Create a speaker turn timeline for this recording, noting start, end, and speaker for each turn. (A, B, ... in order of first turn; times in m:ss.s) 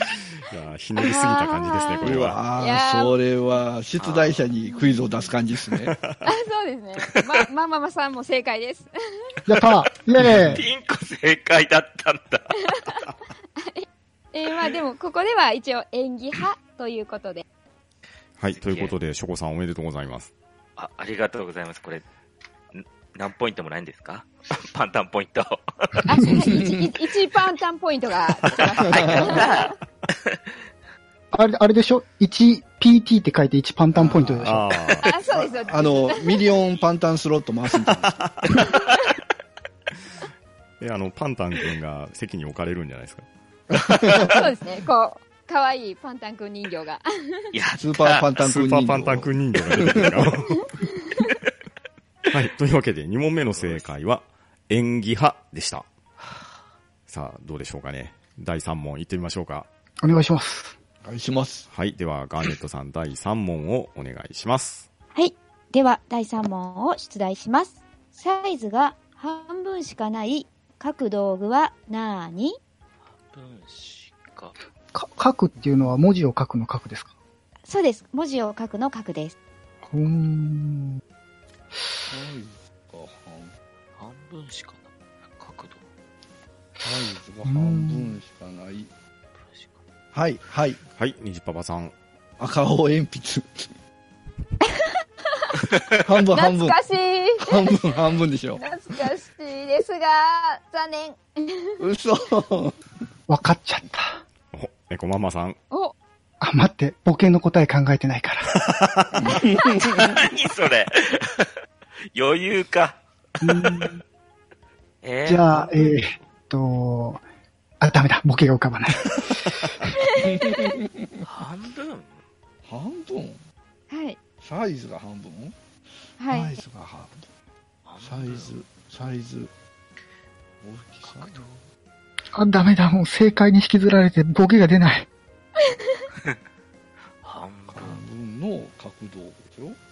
0:00.4-0:02.4 A
0:01.0-0:03.2 B
0:02.0-0:06.0 C
0:04.0-0:04.5 D
0:06.0-0:06.2 A
0:06.2-0:08.9 B
0:09.5-0:10.6 E
0:10.2-0:12.6 D
0:10.2-0:10.6 C
0:12.7-0:13.0 B
0:13.6-0:17.4 B
0:18.4-0:20.3 A
0:18.5-0:18.9 D
0:20.8-0:22.0 D
0:22.7-0:26.5 D
0:26.0-0:29.7 B
0:28.8-0:30.4 D
0:28.9-0:29.4 C
0:31.3-0:34.6 E
0:33.9-0:34.6 C
0:34.4-0:35.1 A
0:35.0-0:36.4 B
0:35.3-0:38.2 C
0:38.0-0:38.8 A
0:38.7-0:39.0 B
0:40.8-0:43.3 A
0:43.7-0:44.4 C
0:44.2-0:47.5 B
0:47.5-0:48.3 D
0:47.8-0:50.3 C
0:48.4-0:50.7 A
0:50.6-0:51.3 B
0:52.3-0:55.8 A
0:53.5-0:53.9 D
0:57.1-0:59.7 A
1:00.0-1:00.7 E
1:01.0-1:01.7 C
1:01.7-1:04.8 A
1:05.1-1:12.6 B
1:13.3-1:14.5 D
1:14.9-1:17.1 E
1:17.7-1:19.4 B
1:19.8-1:21.0 E
1:22.1-1:23.5 C
1:24.0-1:25.8 D
1:26.8-1:28.9 C
1:27.4-1:28.2 E
1:29.4-1:29.8 D
1:30.1-1:30.8 C
1:30.9-1:31.9 A
1:32.4-1:33.7 C
1:34.6-1:35.5 B
1:36.0-1:36.8 C
1:36.3-1:37.7 B
1:37.4-1:38.6 C
1:38.6-1:41.8 B
1:41.8-1:42.8 C
1:43.3-1:44.2 E
1:44.5-1:45.6 A
1:46.4-1:48.5 E
1:48.7-1:49.2 A
1:49.2-1:50.1 C
1:49.9-1:51.5 D
1:52.1-1:53.0 D
1:53.4-1:54.0 E
1:53.6-1:53.8 D
1:55.0-1:56.1 D
1:55.2-1:57.2 E
1:57.8-1:59.9 E
2:00.0-2:00.2 B
2:00.2-2:01.0 C
2:01.2-2:02.2 D
2:02.7-2:03.4 C
2:03.9-2:04.2 B
2:04.4-2:05.5 C
2:06.2-2:06.6 B
2:06.3-2:07.2 C
2:07.8-2:08.5 D
2:08.0-2:09.5 C
2:10.6-2:11.6 C
2:11.0-2:11.5 D
2:12.3-2:15.1 E
2:17.2-2:18.0 D
2:17.7-2:19.8 C